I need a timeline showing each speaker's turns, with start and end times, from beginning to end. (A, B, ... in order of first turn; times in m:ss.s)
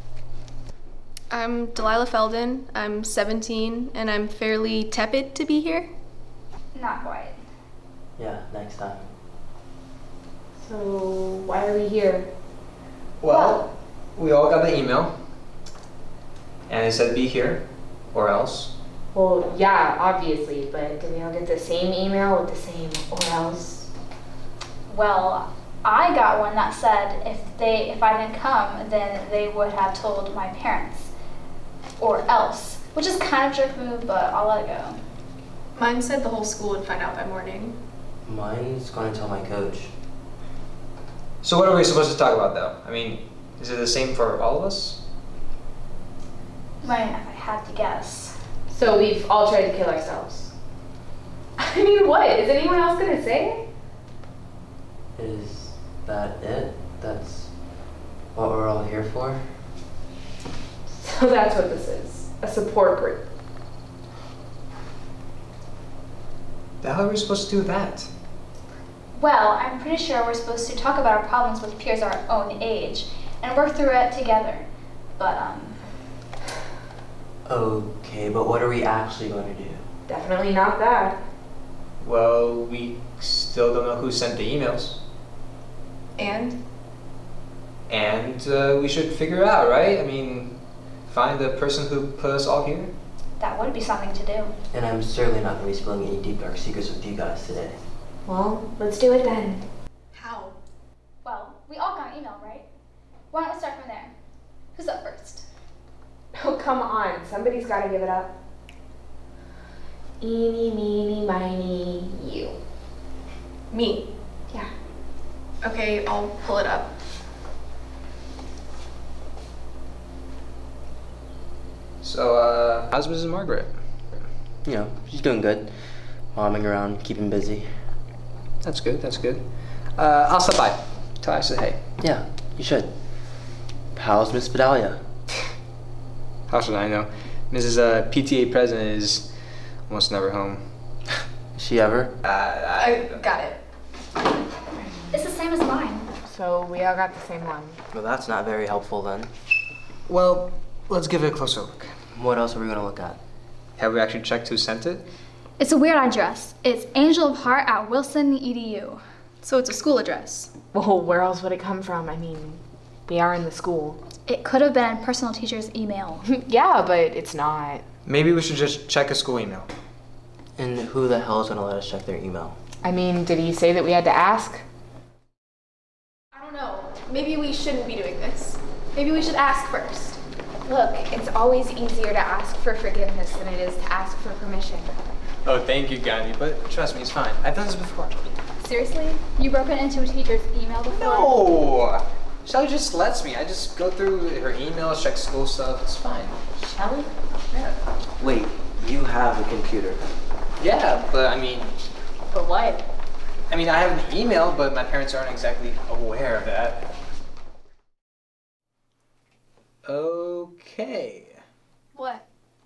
0:01.3-0:05.9 A
0:06.7-0:07.4 B
0:08.2-0:09.0 C
0:10.6-0:12.3 D
0:13.2-0:15.2 E
0:13.3-0:13.6 B
0:16.7-0:18.7 E
0:19.1-0:23.9 D
0:24.9-0:31.1 B
0:32.0-0:35.0 B
0:35.7-0:37.8 A
0:38.2-0:39.9 C
0:41.4-0:45.0 E
0:46.8-0:48.4 B
0:48.7-0:50.5 D
0:51.6-0:53.7 D
0:55.2-0:57.5 C
0:58.3-0:59.4 C
1:00.9-1:03.2 D
1:06.8-1:08.1 E
1:09.1-1:15.8 B
1:17.6-1:19.8 C
1:20.1-1:21.2 D
1:22.0-1:25.0 E
1:26.2-1:26.6 A
1:27.9-1:32.9 E
1:33.4-1:34.5 B
1:34.7-1:37.8 C
1:38.2-1:39.6 D
1:40.1-1:40.6 A
1:41.2-1:42.7 B
1:43.3-1:44.1 B
1:44.7-1:45.5 B
1:46.3-1:48.3 D
1:50.2-1:52.6 D
1:53.7-1:54.1 A
1:55.6-1:56.9 A
2:02.0-2:03.8 E
2:04.7-2:07.8 C
2:08.6-2:11.8 E
2:12.2-2:12.9 C
2:14.0-2:15.0 C
2:16.5-2:20.8 E
2:21.6-2:22.1 C
2:22.2-2:23.2 E
2:22.8-2:23.6 A
2:25.1-2:26.1 B
2:26.2-2:27.8 D
2:27.9-2:29.3 C
2:30.0-2:31.9 E
2:32.3-2:33.2 C
2:33.8-2:35.0 E
2:35.6-2:39.0 B
2:39.4-2:40.5 A
2:40.7-2:44.0 D
2:44.2-2:46.2 B
2:46.2-2:47.8 D
2:48.0-2:49.7 E
2:50.6-2:52.6 C
2:52.8-2:54.6 D
2:56.4-3:00.2 A
3:00.6-3:04.9 D
3:05.4-3:08.3 E
3:08.6-3:11.4 B
3:10.9-3:16.4 E
3:16.6-3:17.1 D
3:20.6-3:21.7 E
3:22.3-3:22.8 E
3:23.5-3:26.9 E
3:29.8-3:31.4 E
3:31.9-3:32.2 A